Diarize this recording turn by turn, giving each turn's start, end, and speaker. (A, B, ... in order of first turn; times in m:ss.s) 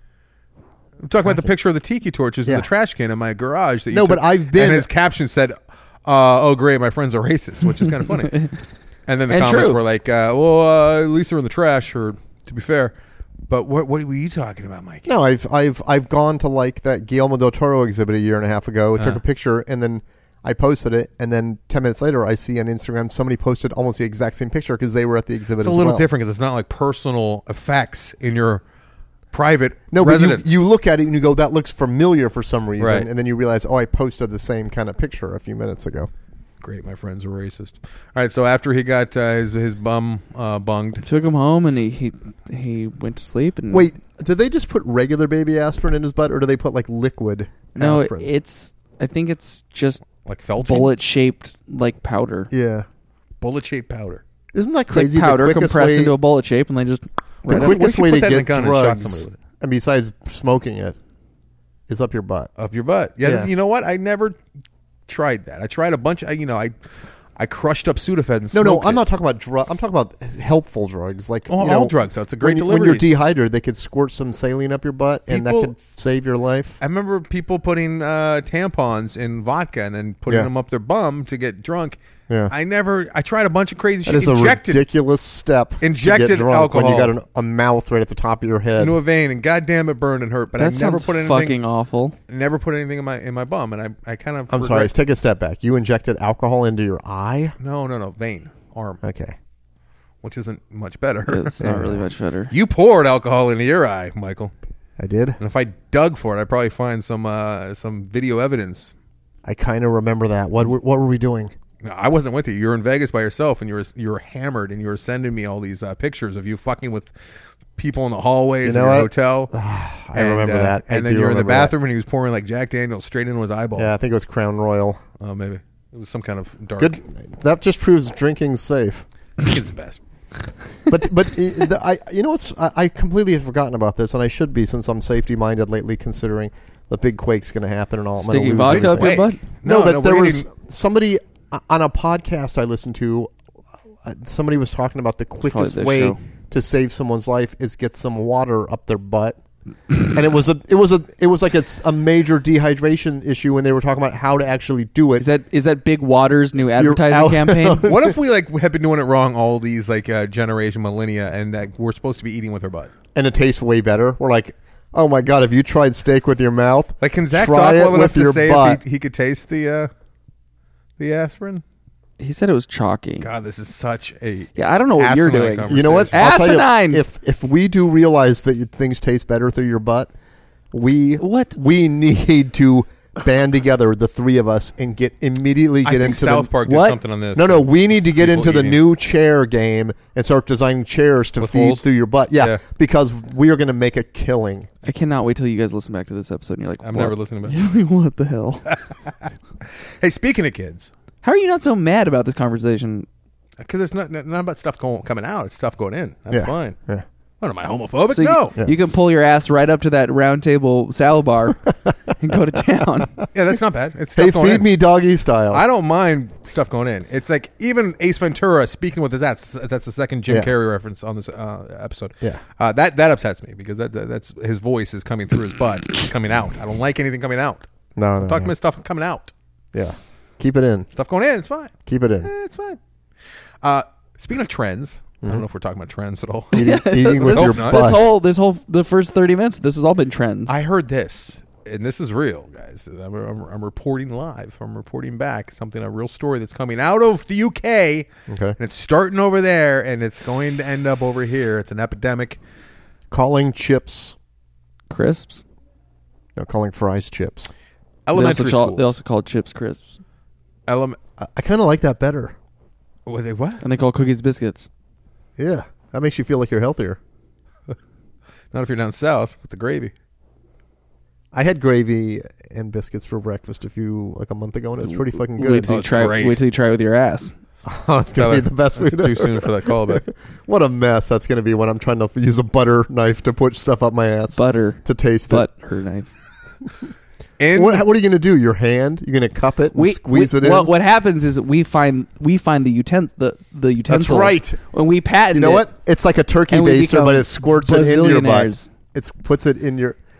0:01.0-0:08.5 A
0:03.9-0:04.9 B
0:09.1-0:12.9 A
0:09.3-0:09.8 C
0:13.5-0:15.1 A
0:15.0-0:26.1 B
0:25.6-0:28.6 A
0:29.3-0:30.6 A
0:29.9-0:36.1 B
0:32.8-0:33.1 A
0:36.6-0:41.0 A
0:41.0-0:43.9 C
0:43.7-0:48.3 B
0:47.8-0:50.0 C
0:50.2-0:51.0 A
0:50.6-0:52.5 C
0:52.5-0:52.9 B
0:53.4-0:54.2 A
0:54.5-0:56.1 B
0:54.9-0:57.7 C
0:57.4-0:59.3 A
0:57.5-1:01.0 B
1:01.9-1:02.5 B
1:02.6-1:04.4 A
1:03.2-1:03.5 B
1:05.1-1:06.7 A
1:07.4-1:09.0 A
1:08.5-1:16.8 B
1:11.5-1:13.1 A
1:15.3-1:15.7 A
1:16.8-1:22.0 A
1:22.5-1:24.8 A
1:24.0-1:29.0 B
1:25.8-1:27.1 A
1:28.8-1:31.6 A
1:30.6-1:32.2 C
1:32.3-1:34.9 A
1:34.5-1:37.5 B
1:37.6-1:39.0 A
1:39.0-1:39.4 B
1:40.2-1:41.6 A
1:41.3-1:42.5 C
1:41.6-1:42.0 B
1:42.5-1:44.5 A
1:45.0-1:45.4 B
1:45.4-1:48.9 A
1:49.4-1:51.5 B
1:51.8-1:57.1 A
1:57.8-1:59.5 A
1:58.6-2:01.7 B
2:00.1-2:03.9 A
2:03.8-2:05.0 B
2:05.2-2:07.0 A
2:06.8-2:09.0 B
2:09.4-2:10.0 A
2:10.9-2:23.3 B
2:18.2-2:19.4 C
2:18.5-2:20.5 A
2:24.0-2:29.4 B
2:25.4-2:26.2 C
2:29.9-2:35.2 B
2:35.2-2:37.9 C
2:36.6-2:38.2 B
2:37.8-2:42.9 A
2:43.1-2:48.8 B
2:47.0-2:49.9 A
2:51.0-2:51.6 A
2:52.2-2:53.3 C
2:53.2-2:56.4 A
2:54.6-2:57.0 C
2:55.7-3:00.1 B
3:00.7-3:06.5 B
3:01.2-3:01.5 C
3:05.8-3:08.8 A
3:06.6-3:07.0 C
3:07.3-3:14.7 B
3:11.4-3:11.8 A
3:14.8-3:18.7 C
3:16.8-3:17.6 A
3:20.0-3:20.9 A
3:21.2-3:23.1 C
3:23.6-3:26.8 A
3:26.3-3:27.0 B
3:27.4-3:28.6 A
3:28.1-3:33.2 C
3:33.3-3:34.7 A
3:34.2-3:35.6 B
3:35.5-3:47.7 A
3:48.0-3:48.5 B
3:48.2-3:49.3 A
3:49.7-3:50.9 B
3:50.9-3:52.8 A
3:51.8-3:52.3 B
3:53.6-3:56.7 A
3:56.5-3:58.1 B
3:56.5-4:00.6 C
3:57.2-3:58.0 A
4:00.5-4:08.1 A
4:08.3-4:08.6 B
4:08.6-4:12.4 A
4:13.1-4:14.2 B
4:14.9-4:15.4 C
4:16.4-4:17.5 B
4:18.0-4:18.9 A
4:18.1-4:20.0 C
4:20.7-4:21.0 A
4:21.2-4:22.3 B
4:23.0-4:23.6 A
4:23.6-4:24.7 C
4:25.4-4:27.0 B
4:28.5-4:29.9 A
4:31.3-4:35.8 B
4:35.3-4:37.3 C
4:35.6-4:36.4 A
4:37.6-4:45.4 B
4:38.2-4:40.0 A
4:44.3-4:46.1 C
4:47.4-4:47.8 A
4:47.5-4:50.7 B
4:49.7-4:55.7 C
4:53.9-4:54.6 B
4:55.3-5:00.0 B
4:56.5-4:58.7 C